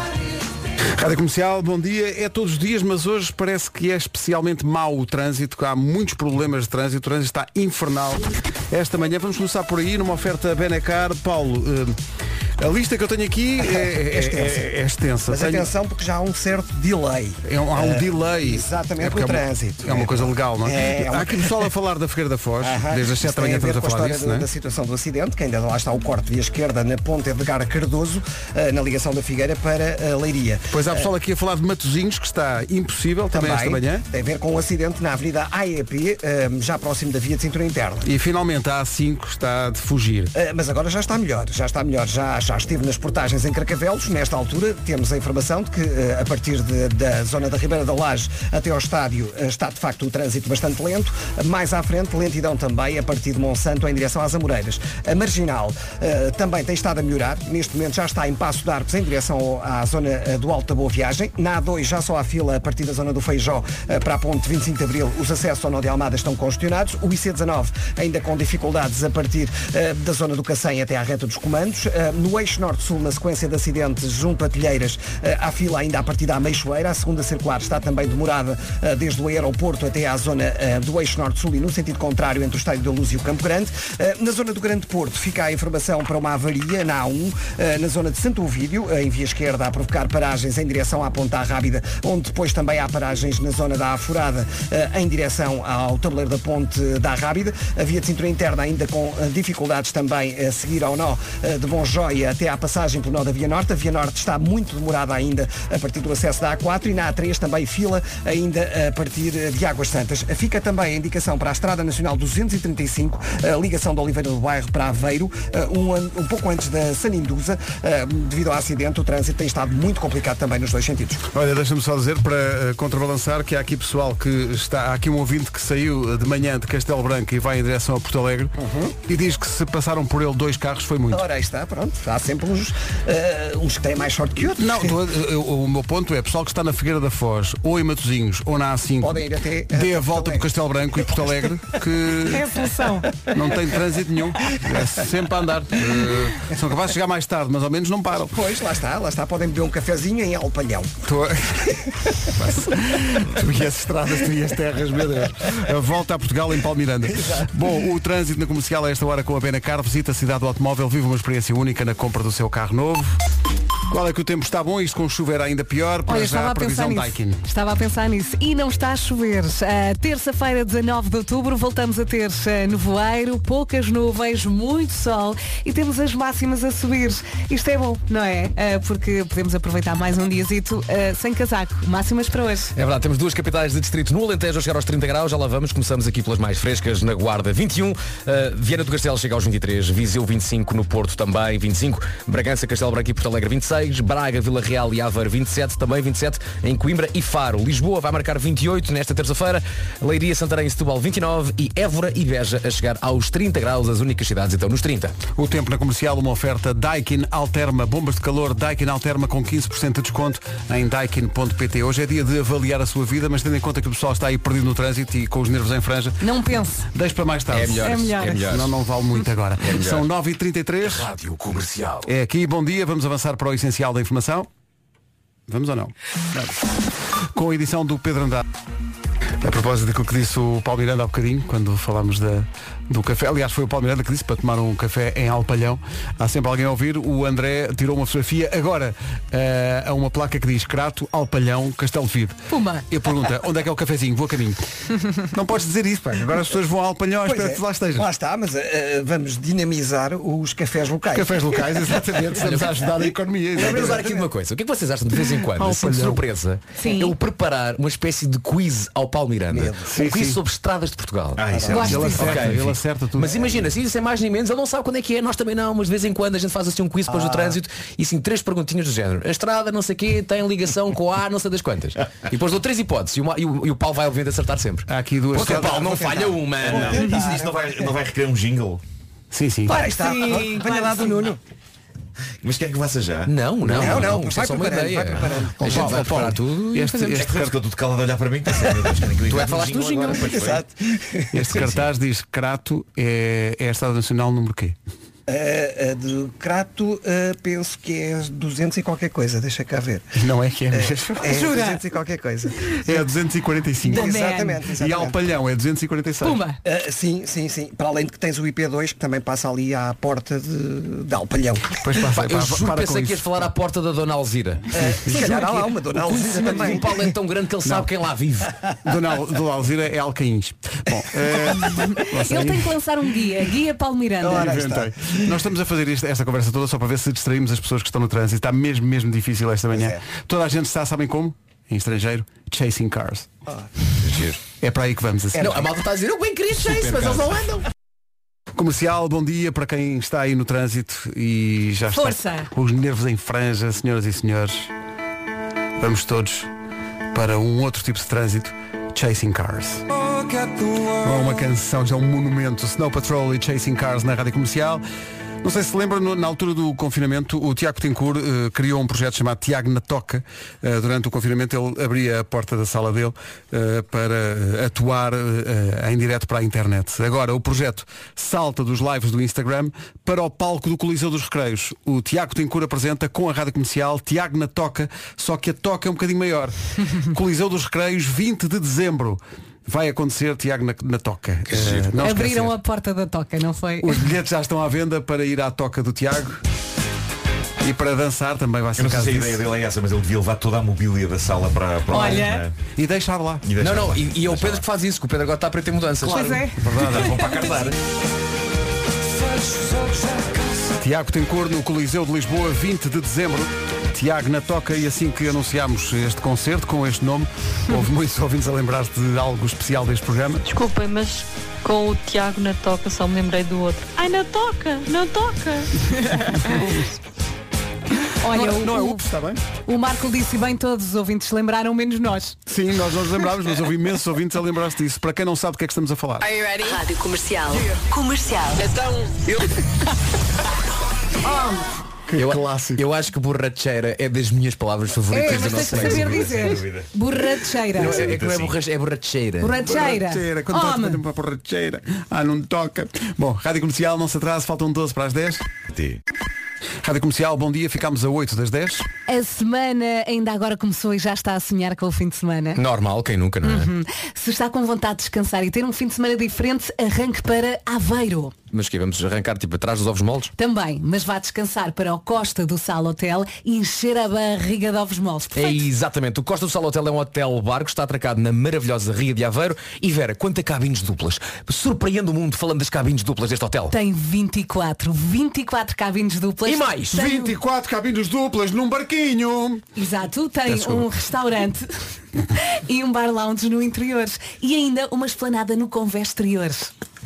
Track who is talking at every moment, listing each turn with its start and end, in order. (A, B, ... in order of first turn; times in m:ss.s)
0:01.0-0:12.0 A
0:12.6-0:15.7 A
0:13.6-0:14.6 B
0:15.3-0:21.7 B
0:17.4-0:24.5 A
0:22.6-0:31.1 B
0:30.7-0:34.0 A
0:33.3-0:38.1 B
0:38.0-0:40.3 A
0:40.3-2:01.2 B
2:01.3-2:11.2 A
2:08.6-2:08.9 B
2:11.1-2:15.0 B
2:14.6-2:22.5 A
2:19.0-2:20.5 B
2:21.0-2:21.5 B
2:22.3-2:23.1 C
2:23.3-2:28.3 A
2:28.3-2:30.9 B
2:31.0-2:43.2 A
2:37.1-2:37.5 B
2:43.9-2:47.4 A
2:46.1-3:02.7 C
3:02.7-3:25.2 D
3:25.3-3:36.2 A
3:36.2-3:36.8 C
3:36.9-3:41.1 A
3:37.5-3:38.7 D
3:37.8-3:38.4 C
3:39.6-3:40.0 D
3:40.8-3:42.1 D
3:42.0-3:44.5 A
3:45.5-3:46.5 A
3:47.3-3:48.4 A
3:49.4-4:02.4 A
4:02.5-4:02.8 C
4:02.9-4:04.6 A
4:05.2-4:08.1 A
4:07.2-4:14.3 B
4:11.1-4:14.1 A
4:12.3-4:37.3 D
4:15.3-4:16.2 A
4:16.8-4:17.1 C
4:19.5-4:19.9 B
4:19.9-4:20.4 A
4:21.4-4:22.0 E
4:21.5-4:22.1 B
4:21.7-4:22.4 C
4:21.7-4:23.5 A
4:27.1-4:27.6 B
4:34.9-4:35.9 A
4:35.3-4:37.9 B
4:36.6-4:38.8 E
4:39.3-4:39.8 A
4:39.6-4:41.4 B
4:39.7-4:41.3 C
4:42.4-4:43.3 E
4:43.2-4:47.4 D
4:43.6-4:44.2 A
4:43.7-4:46.0 B
4:45.4-4:47.6 A
4:45.7-4:46.0 E
4:47.2-4:50.6 E
4:49.2-4:50.6 D
4:50.1-4:51.6 B
4:51.3-4:54.8 A
4:51.5-4:51.9 E
4:55.3-5:00.0 B
5:00.2-5:01.3 A
5:00.7-5:03.0 B
5:01.2-5:01.8 C
5:02.8-5:04.1 A
5:03.8-5:05.2 B
5:03.9-5:04.6 C
5:04.8-5:06.4 A
5:06.2-5:06.6 C
5:06.6-5:11.9 B
5:11.8-5:13.5 A
5:12.0-5:18.5 D
5:14.7-5:17.1 B
5:15.0-5:15.4 A
5:17.6-5:17.9 A
5:18.8-5:22.7 A
5:22.2-5:24.6 C
5:24.2-5:25.4 B
5:24.2-5:33.3 A
5:29.7-5:30.0 B
5:34.1-5:34.4 D
5:34.6-5:35.7 A
5:35.4-5:37.6 D
5:38.5-5:44.7 A
5:41.9-5:42.5 C
5:45.8-5:46.5 A
5:47.1-5:49.8 A
5:50.9-5:54.8 A
5:55.4-6:22.6 A
6:21.5-6:21.9 D
6:22.0-6:24.0 C
6:23.8-6:26.4 A
6:27.6-6:29.4 A
6:28.8-6:32.6 E
6:31.9-6:32.4 C
6:32.8-6:33.4 A
6:33.4-6:34.6 E
6:33.6-6:36.5 D
6:36.0-6:37.3 C
6:36.6-6:37.2 A
6:36.7-6:37.8 E
6:40.8-6:50.4 A
6:50.5-6:55.7 F
6:56.3-6:56.8 A
6:58.2-6:59.0 C
6:58.3-6:59.4 A
6:59.6-7:02.4 C
7:02.5-7:06.3 A
7:06.6-7:08.7 G
7:12.1-7:12.8 A
7:12.1-7:16.5 D
7:15.1-7:18.1 C
7:15.5-7:16.9 E
7:17.7-7:19.6 D
7:18.0-7:18.6 E
7:19.4-7:21.0 C
7:19.6-7:25.4 A
7:25.7-7:26.0 E
7:26.8-7:28.9 A
7:29.1-7:32.6 C
7:32.6-7:33.7 D
7:33.4-7:38.3 C
7:38.5-7:40.3 D
7:40.4-7:45.6 C
7:45.3-7:53.7 D
7:53.7-7:57.3 C
7:56.4-7:57.0 D
7:56.9-7:59.6 A
7:59.8-8:01.7 C
8:02.3-8:06.7 C